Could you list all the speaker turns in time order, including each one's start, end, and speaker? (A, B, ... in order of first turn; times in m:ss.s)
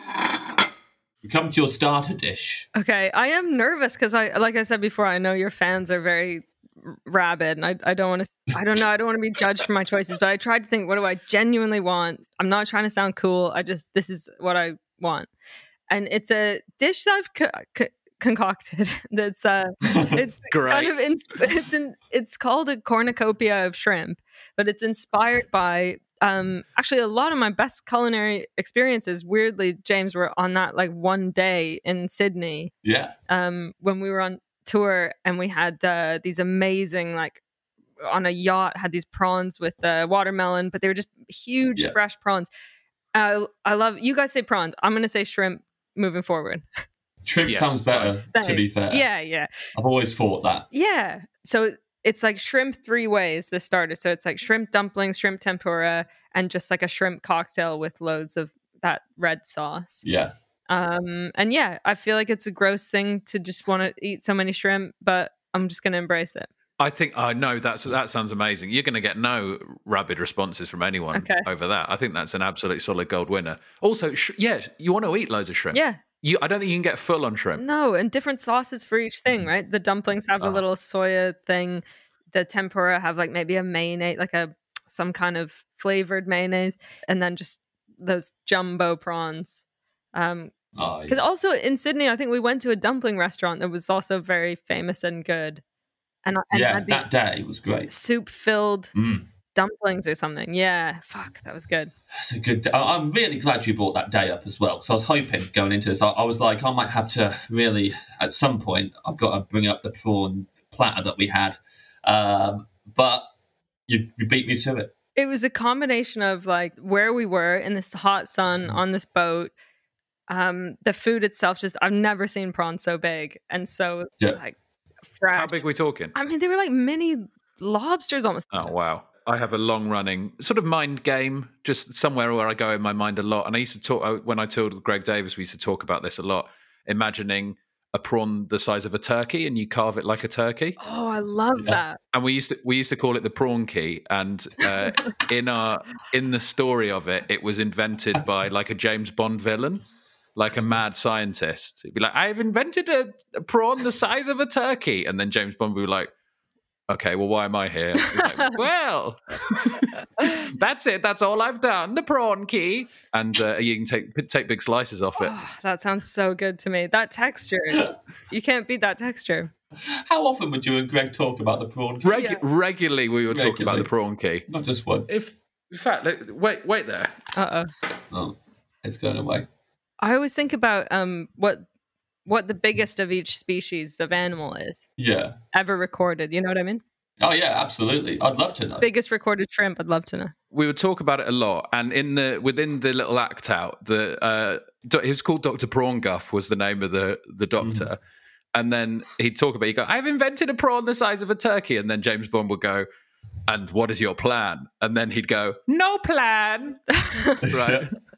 0:01.2-0:02.7 A
0:02.8-0:15.3 B
0:15.9-0:32.7 B
0:20.5-0:21.0 C
0:32.8-0:33.1 A
0:33.3-0:37.4 B
0:38.0-0:42.5 B
0:43.1-0:46.6 B
0:47.2-0:49.1 A
0:47.4-0:48.1 C
0:48.3-0:49.5 B
0:49.8-0:50.7 A
0:50.7-1:00.0 B
1:00.0-1:00.3 A
1:00.7-1:06.5 B
1:06.8-1:17.6 C
1:11.1-1:11.5 B
1:15.7-1:16.0 B
1:17.6-1:29.6 B
1:30.1-1:30.5 B
1:30.8-1:31.2 A
1:31.1-1:35.6 B
1:36.2-1:37.1 B
1:36.5-1:37.9 A
1:37.9-1:38.9 B
1:38.9-1:39.2 A
1:39.6-1:41.9 B
1:42.2-1:53.2 A
1:53.9-1:54.9 A
1:55.2-1:59.5 B
2:00.3-2:04.6 B
2:05.1-2:05.6 B
2:05.3-2:06.1 C
2:06.1-2:08.7 B
2:08.5-2:20.8 C
2:20.8-2:22.0 B
2:22.1-2:29.8 C
2:30.4-2:36.1 C
2:36.9-2:45.4 C
2:38.0-2:38.6 B
2:45.2-2:49.5 B
2:49.9-2:52.1 A
2:52.0-2:54.5 C
2:52.1-2:52.4 B
2:53.3-2:53.9 A
2:54.5-2:55.1 A
2:55.1-2:57.1 C
2:57.4-2:57.7 B
2:58.1-2:59.5 A
3:00.0-3:01.6 B
3:02.3-3:04.9 B
3:05.0-3:05.4 A
3:05.5-3:06.8 B
3:07.2-3:08.9 A
3:08.8-3:10.3 B
3:10.5-3:18.0 C
3:17.6-3:17.9 A
3:18.5-3:22.9 C
3:23.5-3:26.9 C
3:27.0-3:27.4 B
3:27.4-3:27.9 A
3:27.5-3:27.9 C